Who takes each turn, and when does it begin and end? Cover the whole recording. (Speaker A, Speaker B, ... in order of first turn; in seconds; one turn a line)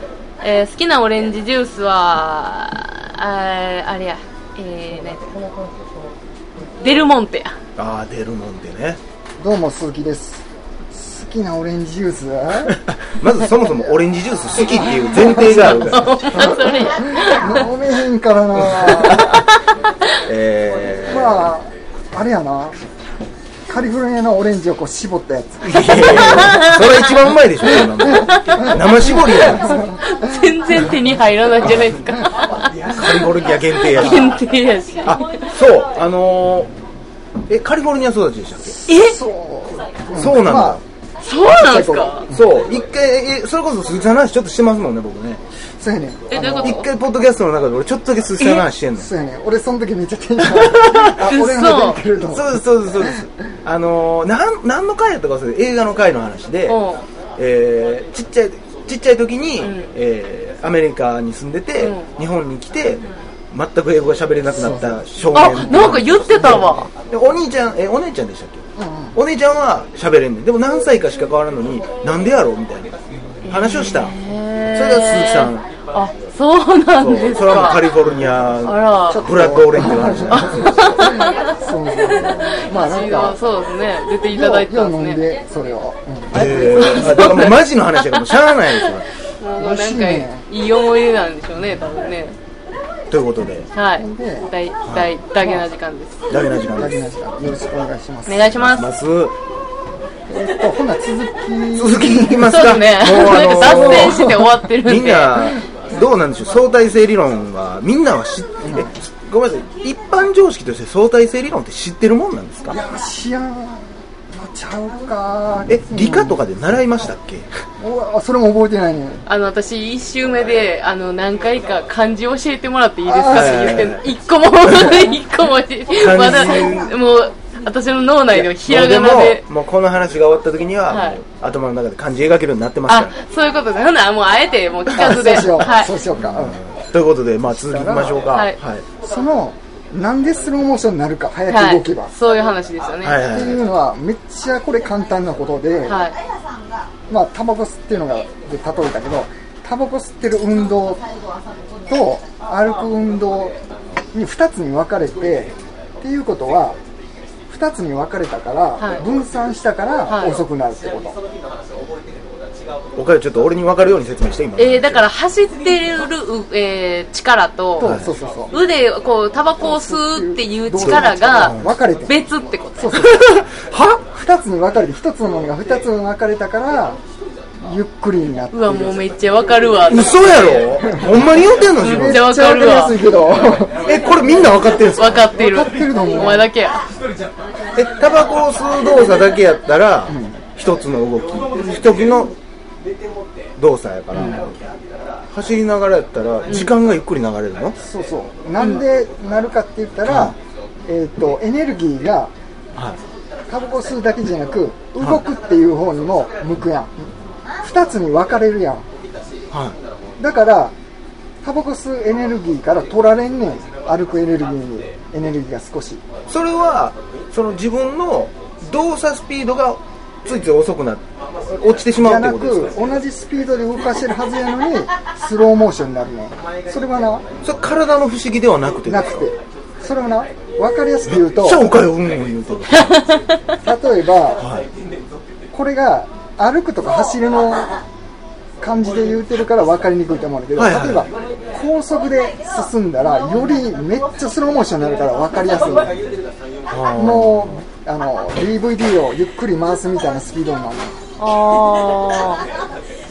Speaker A: 0.4-5.4
Speaker A: 6.8-7.5
Speaker B: 7.8-9.0
Speaker C: 9.4-12.8
Speaker B: 12.7-16.5
Speaker C: 14.6-19.4
Speaker A: 15.2-17.7
Speaker B: 18.6-19.4
Speaker B: 20.1-21.5
Speaker C: 21.1-22.8
Speaker C: 23.7-26.5
Speaker B: 25.6-29.9
Speaker A: 26.2-27.0
Speaker A: 27.7-35.5
Speaker C: 28.0-30.0
Speaker B: 32.9-34.4
Speaker B: 35.0-36.7
Speaker B: 37.5-38.8
Speaker A: 38.9-39.2
Speaker C: 38.9-40.8
Speaker B: 40.1-40.8
Speaker A: 41.2-42.3
Speaker C: 41.5-42.4
Speaker B: 42.3-45.4
Speaker C: 45.8-46.8
Speaker A: 46.3-46.9
Speaker B: 46.6-49.1
Speaker A: 48.4-48.6
Speaker C: 49.0-53.3
Speaker B: 50.5-51.3
Speaker A: 51.3-52.0
Speaker B: 52.3-56.8
Speaker A: 56.7-57.0
Speaker B: 57.4-72.9
Speaker A: 59.6-59.9
Speaker A: 61.8-62.1
Speaker C: 64.5-65.0
Speaker A: 65.3-66.9
Speaker C: 66.3-66.7
Speaker C: 68.8-69.2
Speaker B: 73.5-74.2
Speaker A: 73.5-77.9
Speaker B: 74.7-75.8
Speaker B: 77.0-81.3
Speaker A: 78.6-79.2
Speaker C: 79.1-83.4
Speaker A: 80.3-81.5
Speaker A: 82.5-85.2
Speaker C: 84.3-87.3
Speaker B: 86.3-89.1
Speaker A: 86.5-88.4
Speaker A: 89.4-92.4
Speaker C: 89.6-90.5
Speaker B: 93.1-93.7
Speaker A: 93.7-96.2
Speaker C: 94.0-94.5
Speaker B: 96.3-97.0
Speaker C: 96.7-98.5
Speaker A: 98.3-98.9
Speaker B: 98.6-99.3
Speaker C: 100.3-104.6
Speaker B: 101.7-104.3
Speaker A: 102.5-105.5
Speaker B: 104.8-112.8
Speaker C: 105.4-105.7
Speaker C: 108.6-108.9
Speaker C: 112.7-116.4
Speaker B: 115.7-117.5
Speaker C: 117.8-119.2
Speaker A: 119.3-129.5
Speaker C: 123.0-123.7
Speaker B: 123.3-124.0
Speaker B: 126.0-126.9
Speaker B: 128.3-133.1
Speaker A: 130.9-131.2
Speaker A: 132.9-136.0
Speaker C: 134.9-136.6
Speaker B: 136.2-138.9
Speaker C: 137.5-138.2
Speaker C: 139.0-142.1
Speaker A: 141.5-143.2
Speaker B: 143.0-143.6
Speaker C: 143.3-146.0
Speaker A: 145.9-146.2
Speaker C: 147.1-151.0
Speaker C: 151.9-153.6
Speaker C: 154.1-156.8
Speaker C: 157.5-161.2
Speaker A: 160.1-160.4
Speaker B: 163.0-165.1
Speaker A: 164.6-173.1
Speaker C: 167.8-168.6
Speaker B: 167.8-168.1
Speaker C: 169.6-172.2
Speaker B: 170.8-171.7
Speaker C: 172.8-177.0
Speaker C: 177.6-179.0
Speaker A: 178.5-180.8
Speaker B: 179.9-182.3
Speaker C: 180.8-183.8
Speaker A: 181.8-183.1
Speaker B: 183.8-185.3
Speaker A: 184.7-186.8
Speaker C: 185.3-186.5
Speaker B: 187.8-192.4
Speaker C: 190.1-190.4
Speaker B: 193.6-194.6
Speaker C: 194.1-194.5
Speaker B: 195.3-197.8
Speaker A: 196.5-196.7
Speaker C: 197.8-202.3
Speaker B: 200.1-200.3
Speaker C: 203.5-207.1
Speaker C: 207.6-208.9
Speaker B: 209.5-209.8
Speaker C: 210.2-210.7
Speaker C: 211.4-216.0
Speaker B: 216.3-221.0
Speaker B: 221.6-222.7
Speaker C: 221.9-227.2
Speaker B: 227.4-229.3
Speaker C: 228.8-231.7
Speaker B: 231.1-233.0
Speaker C: 233.6-234.5
Speaker B: 234.4-234.7
Speaker C: 235.5-237.8
Speaker C: 238.6-246.0
Speaker B: 240.6-241.1
Speaker B: 246.7-247.6
Speaker C: 246.9-251.0
Speaker A: 251.2-252.4